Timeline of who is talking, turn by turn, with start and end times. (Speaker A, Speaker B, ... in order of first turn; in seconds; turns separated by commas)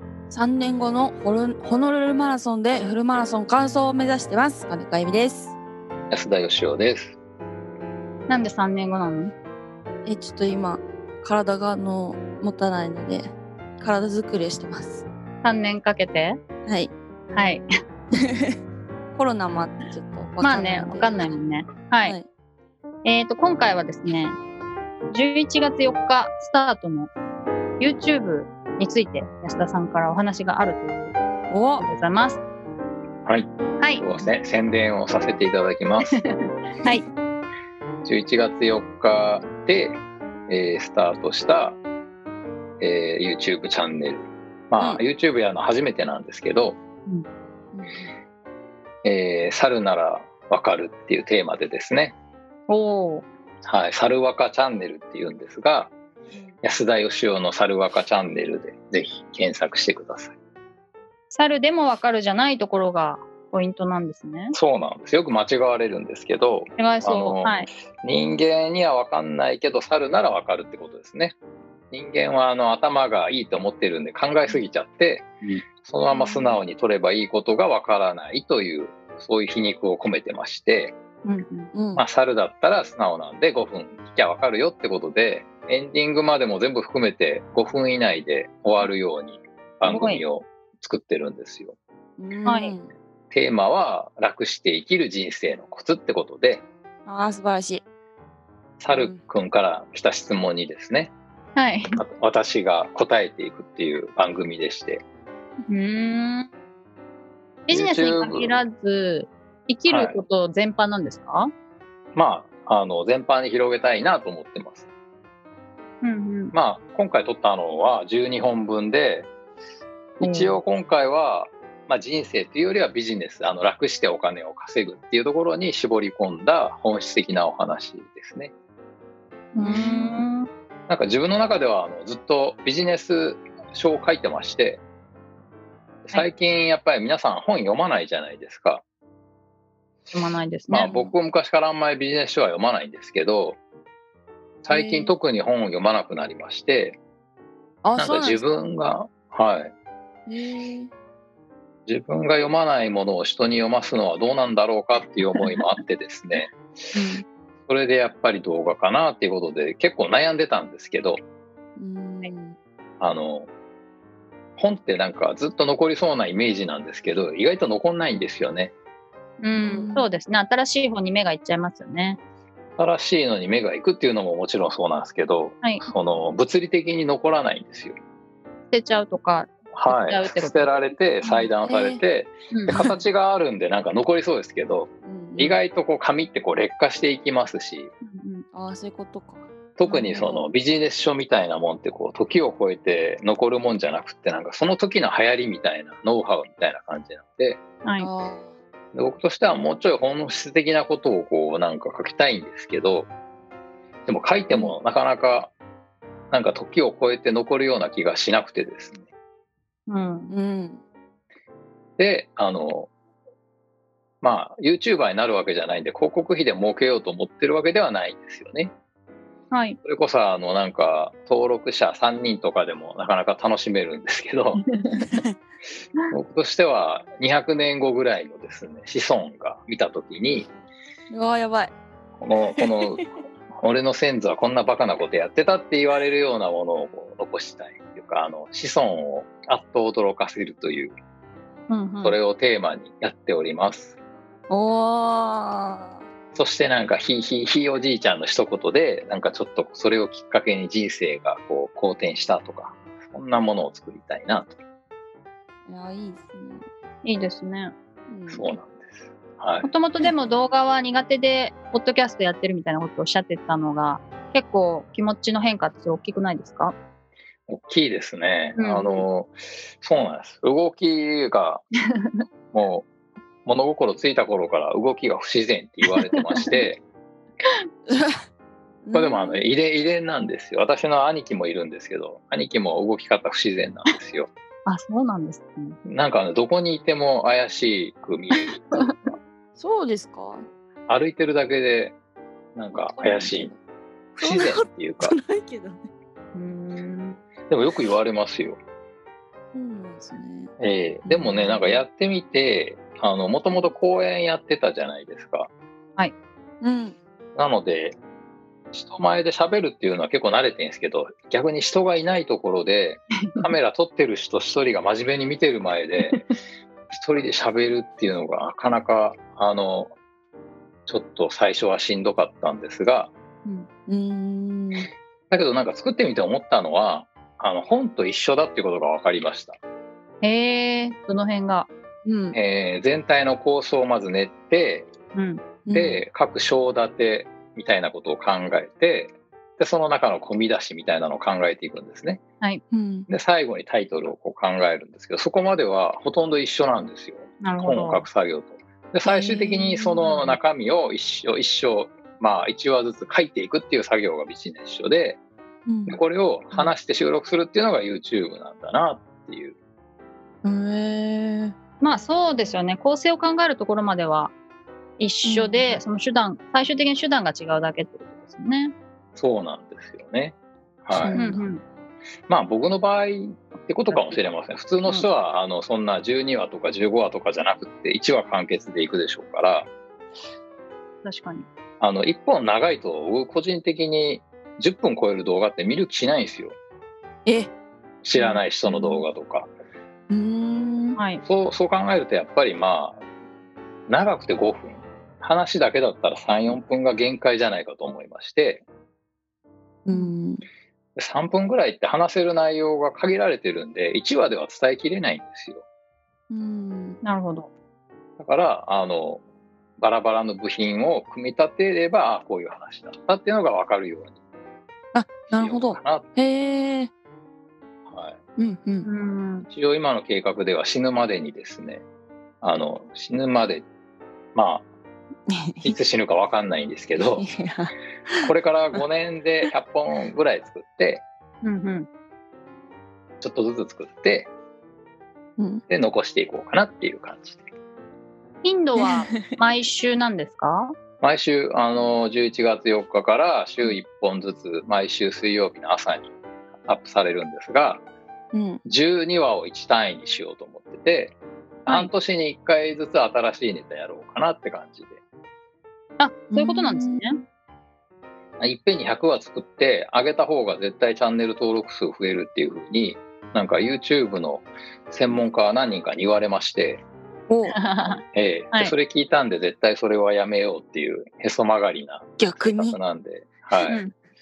Speaker A: 0.3-5.5, Speaker B: 6.1-7.2, Speaker C: 8.3-9.3, Speaker A: 10.1-15.1, Speaker C: 15.4-16.4, Speaker A: 16.7-16.9, Speaker C: 17.3-17.6, Speaker A: 18.2-18.6, Speaker A: 19.1-21.4, Speaker C: 20.4-22.2, Speaker C: 23.1-24.4, Speaker C: 25.1-27.1, Speaker C: 27.8-31.1, Speaker A: 31.5-31.8, Speaker C: 31.8-32.4, Speaker B: 33.3-36.2, Speaker B: 38.0-41.8, Speaker B: 42.8-46.8, Speaker A: 47.7-48.1, Speaker B: 49.0-52.1, Speaker C: 52.7-53.2, Speaker B: 53.6-55.9, Speaker B: 56.6-60.3, Speaker C: 61.3-64.6, Speaker B: 64.5-71.3, Speaker C: 66.8-67.7, Speaker B: 71.9-75.3, Speaker B: 75.8-81.0, Speaker C: 81.2-81.7, Speaker A: 81.7-82.0, Speaker B: 82.0-91.8, Speaker C: 89.8-90.2, Speaker A: 92.2-92.9, Speaker C: 92.5-92.7, Speaker B: 93.3-96.7, Speaker A: 97.1-97.8, Speaker B: 98.8-101.1, Speaker A: 98.9-99.2, Speaker C: 101.6-102.0, Speaker B: 102.0-105.0, Speaker C: 105.7-106.5, Speaker C: 107.7-111.5, Speaker B: 107.7-108.6, Speaker B: 109.9-110.2, Speaker B: 112.2-114.9, Speaker C: 116.0-116.5, Speaker B: 116.5-119.3, Speaker B: 120.2-128.5, Speaker C: 120.2-120.6, Speaker C: 129.6-130.5, Speaker A: 129.6-130.2, Speaker B: 130.9-134.8, Speaker B: 136.1-138.8, Speaker C: 140.1-140.9, Speaker B: 140.7-143.6, Speaker A: 140.8-141.1, Speaker B: 144.6-147.0, Speaker A: 144.7-145.1, Speaker A: 147.8-148.5, Speaker B: 148.0-149.7, Speaker A: 150.3-150.9, Speaker B: 151.9-156.5, Speaker A: 156.9-157.2, Speaker B: 157.7-161.2, Speaker A: 161.8-162.6, Speaker B: 163.0-163.5, Speaker B: 164.6-168.7, Speaker C: 169.4-172.2, Speaker A: 169.5-170.1, Speaker B: 172.8-178.0, Speaker C: 178.7-180.7, Speaker B: 179.7-187.9, Speaker A: 181.3-182.0, Speaker A: 185.1-185.6, Speaker C: 188.0-188.4, Speaker A: 188.5-190.5, Speaker B: 189.8-197.6, Speaker C: 197.8-198.1, Speaker A: 198.0-198.5, Speaker B: 198.9-203.1, Speaker B: 204.1-205.5, Speaker B: 206.3-209.1, Speaker C: 209.9-210.3, Speaker A: 210.3-210.8, Speaker B: 212.0-212.9, Speaker B: 214.2-218.7, Speaker C: 219.5-219.8, Speaker B: 219.8-224.7, Speaker C: 224.7-225.1, Speaker A: 225.0-225.3, Speaker B: 226.1-230.5, Speaker A: 231.1-231.8, Speaker B: 232.2-233.0, Speaker A: 232.6-233.1, Speaker B: 233.6-241.0, Speaker C: 241.7-242.2, Speaker B: 242.0-244.0, Speaker A: 244.5-246.0, Speaker B: 246.3-254.6, Speaker A: 255.7-256.7, Speaker C: 257.0-257.7, Speaker A: 258.1-258.5, Speaker B: 258.3-259.7, Speaker C: 259.6-266.8, Speaker B: 267.5-271.6, Speaker C: 268.6-269.0, Speaker B: 272.5-272.9, Speaker B: 273.4-276.8, Speaker A: 277.9-278.2, Speaker A: 278.9-279.4, Speaker B: 278.9-284.3, Speaker C: 284.7-285.8, Speaker B: 285.9-288.9, Speaker C: 288.4-288.9, Speaker A: 289.6-290.4, Speaker B: 290.9-292.0, Speaker B: 292.6-293.5, Speaker A: 292.7-293.6, Speaker B: 294.1-295.2, Speaker A: 294.2-295.9, Speaker C: 296.4-297.2, Speaker B: 297.5-298.6, Speaker A: 299.5-300.5, Speaker B: 300.6-305.5, Speaker A: 301.1-301.8, Speaker A: 306.6-307.0, Speaker B: 307.4-308.0, Speaker B: 308.7-316.2, Speaker C: 313.2-313.5, Speaker B: 316.9-319.9, Speaker B: 320.9-323.1, Speaker A: 323.9-324.9, Speaker B: 325.3-329.6, Speaker C: 330.2-331.7, Speaker A: 332.1-332.4, Speaker B: 332.3-334.9, Speaker C: 335.1-335.5, Speaker A: 335.7-336.0, Speaker B: 335.7-342.2, Speaker A: 342.7-343.1, Speaker B: 343.1-355.2, Speaker C: 347.4-348.1, Speaker A: 349.1-350.4, Speaker A: 355.7-356.0, Speaker B: 355.9-359.6, Speaker A: 360.4-361.6, Speaker C: 361.8-364.3, Speaker C: 365.0-368.7, Speaker A: 365.3-365.8, Speaker B: 369.2-371.2, Speaker A: 370.9-371.4, Speaker C: 371.1-371.6, Speaker B: 372.3-379.7, Speaker C: 373.9-374.2, Speaker C: 381.0-381.5, Speaker B: 381.8-386.6, Speaker A: 387.3-387.5, Speaker B: 388.0-389.5, Speaker A: 388.2-389.1, Speaker A: 390.1-391.0, Speaker C: 391.0-391.2, Speaker B: 391.2-393.0, Speaker B: 393.9-398.6, Speaker A: 399.9-400.4, Speaker B: 401.0-405.6, Speaker A: 406.3-407.0, Speaker C: 407.0-407.5, Speaker B: 408.2-409.2, Speaker B: 409.8-414.2, Speaker A: 414.9-416.9, Speaker B: 415.3-416.1, Speaker B: 417.9-418.2, Speaker A: 418.4-418.9, Speaker C: 418.9-419.5, Speaker B: 419.5-421.8, Speaker B: 422.4-423.6, Speaker B: 424.4-424.7, Speaker A: 425.3-425.8, Speaker B: 425.6-427.3, Speaker A: 427.0-428.8, Speaker B: 428.2-431.1, Speaker C: 431.4-431.9, Speaker B: 433.2-434.3, Speaker B: 435.7-437.4, Speaker C: 438.4-440.8, Speaker A: 438.8-439.3, Speaker B: 441.0-446.1, Speaker B: 446.6-447.8, Speaker A: 448.3-448.6, Speaker B: 448.7-455.0, Speaker C: 456.0-457.2, Speaker A: 456.3-457.0, Speaker B: 458.4-466.8, Speaker A: 467.3-467.6, Speaker C: 467.5-468.0, Speaker B: 468.1-473.8, Speaker A: 472.2-472.8, Speaker C: 473.6-473.9